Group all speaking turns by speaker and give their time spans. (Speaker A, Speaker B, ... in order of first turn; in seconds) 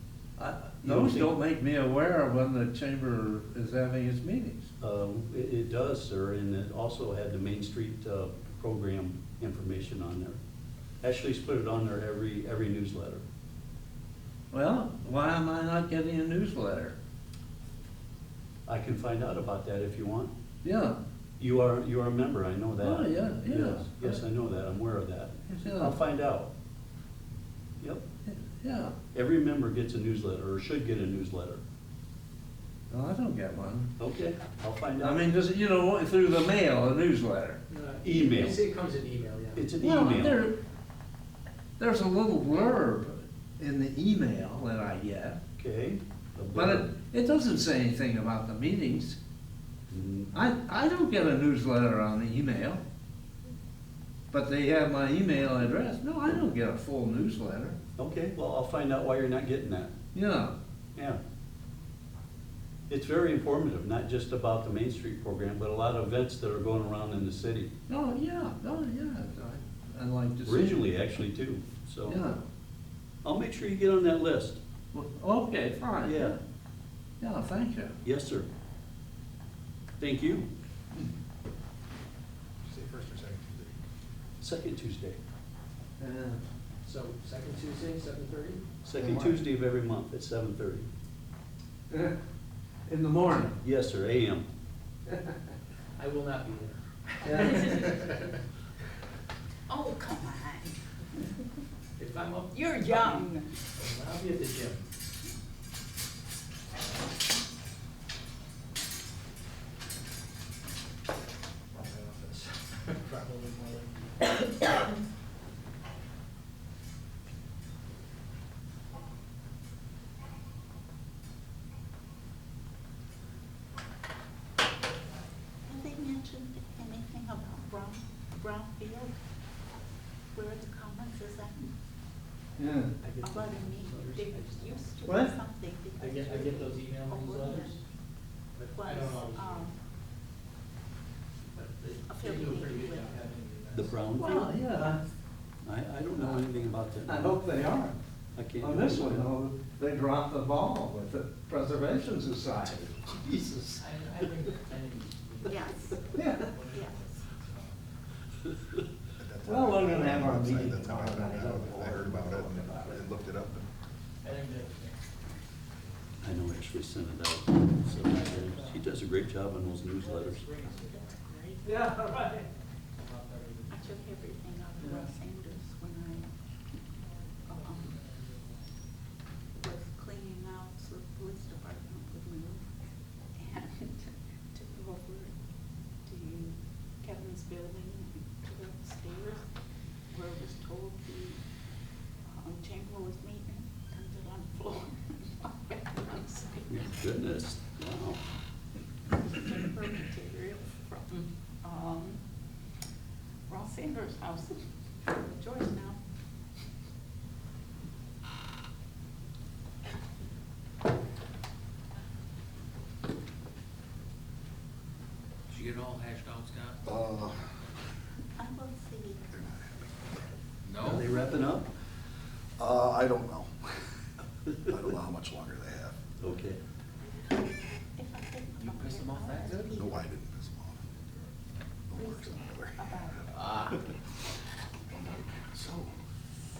Speaker A: 0.4-4.7, 14.5-16.9, 20.6-21.0, 22.8-24.2, 25.5-25.9, 28.2-28.9, 32.9-33.9, 35.0-37.6, 39.8-40.5, 41.8-45.4, 46.5-49.2, 50.3-52.8, 54.3-57.8, 60.1-60.5, 67.9-70.8, 72.0-72.4, 74.9-76.4, 77.2-77.9, 86.0-86.4, 89.0-89.3, 91.9-92.2, 92.9-93.6, 97.2-97.9, 132.6-132.9, 135.0-135.3, 144.2-145.0, 147.1-147.9, 148.6-153.8, 156.1-156.5, 159.4-163.1, 171.6-172.5
Speaker B: 0.8-1.4, 4.8-10.4, 11.0-13.2, 18.6-20.3, 21.4-26.5, 29.1-31.6, 34.0-35.3, 38.0-38.6, 39.5-40.5, 45.6-46.9, 49.9-50.3, 58.0-59.9, 60.9-61.2, 62.9-67.7, 70.4-72.2, 73.2-74.6, 76.0-76.3, 78.0-78.5, 80.0-80.5, 84.4-85.2, 88.8-90.9, 93.6-94.5, 143.7-144.5, 145.6-147.4, 148.3-149.3, 166.2-170.8, 196.7-198.2, 220.8-221.7, 226.2-226.6
Speaker C: 37.7-39.7, 86.8-88.7, 96.0-98.3, 102.0-104.8, 111.7-114.3, 133.0-135.1, 136.0-137.7, 138.6-139.6, 141.5-144.0, 153.8-157.7, 164.2-165.0, 168.0-168.8, 169.9-174.2, 177.5-178.6
Speaker D: 82.7-83.7, 159.2-163.7, 216.8-217.4, 219.3-220.3, 222.6-223.7, 224.5-226.0, 229.6-231.3, 231.9-234.0, 234.9-235.9
Speaker E: 97.4-97.9, 99.7-100.8, 102.5-103.5, 125.7-129.2, 130.3-131.7, 133.2-137.8, 138.6-139.8, 142.1-143.2, 155.4-157.2, 173.7-176.3, 177.5-177.9, 179.6-182.7, 183.4-185.3, 186.0-189.4, 190.1-191.4, 192.3-196.9, 199.2-202.2, 203.5-206.0, 218.4-219.3, 228.0-230.0, 231.9-233.8
Speaker F: 215.5-216.8, 220.6-221.0, 228.6-229.7, 233.3-233.6